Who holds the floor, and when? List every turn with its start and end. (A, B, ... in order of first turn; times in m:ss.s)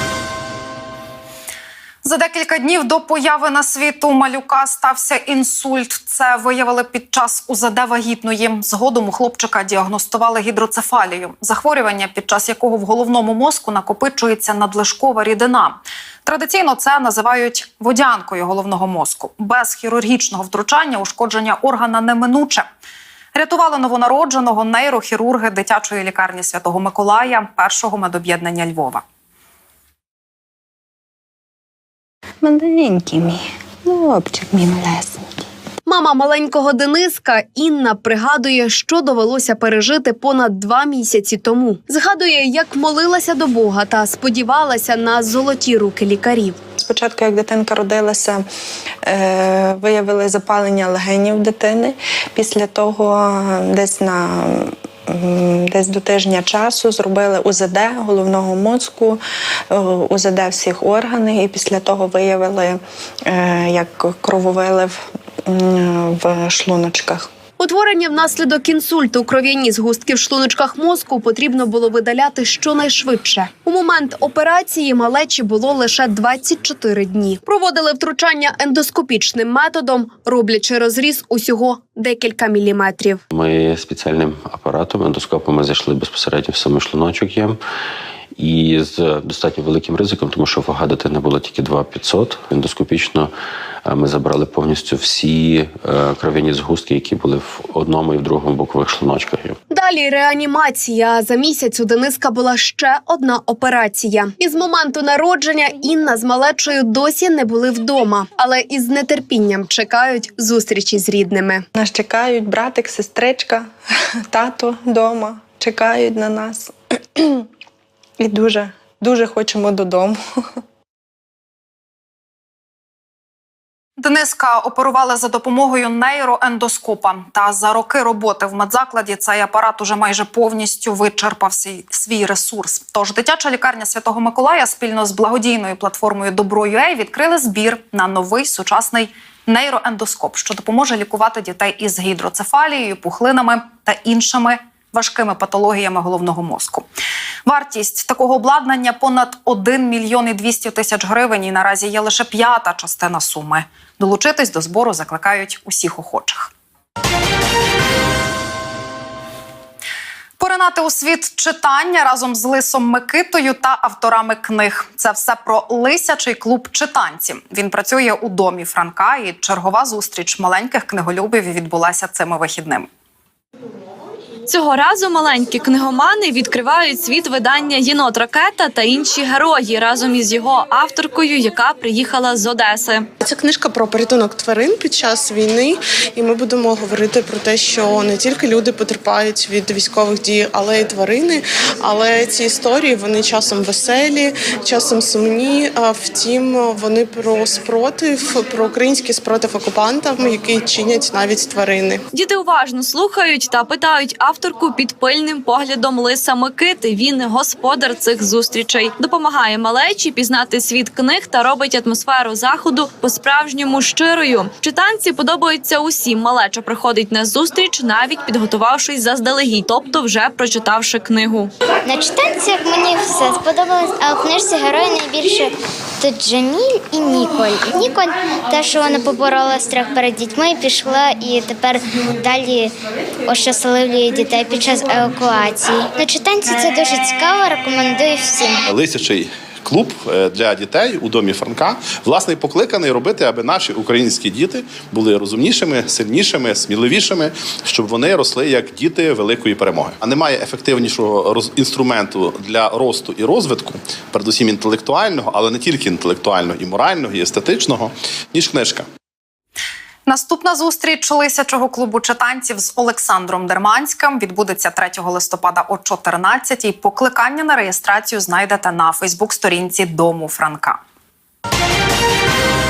0:02.0-0:22.6 A
0:23.3-0:29.0 A
0:32.4-0:35.4 B
0:35.8-0:46.6 C
0:46.8-0:48.4 B
0:49.0-0:59.2 B
0:59.7-1:07.3 B
1:07.6-1:23.2 C
1:23.3-1:27.6 D
1:28.4-1:33.3 D
1:33.8-1:39.6 D
1:39.7-1:51.6 C
1:51.7-1:53.7 B
1:54.3-1:57.4 B
1:58.2-2:00.2 B
2:04.0-2:26.9 A
2:27.4-2:36.5 A
2:40.4-2:52.9 A
2:54.5-3:03.1 E
3:03.2-3:22.0 F
3:22.1-3:41.5 E
3:41.8-3:52.7 G
3:53.3-3:58.6 G
3:58.7-4:18.8 H
4:20.1-4:30.8 A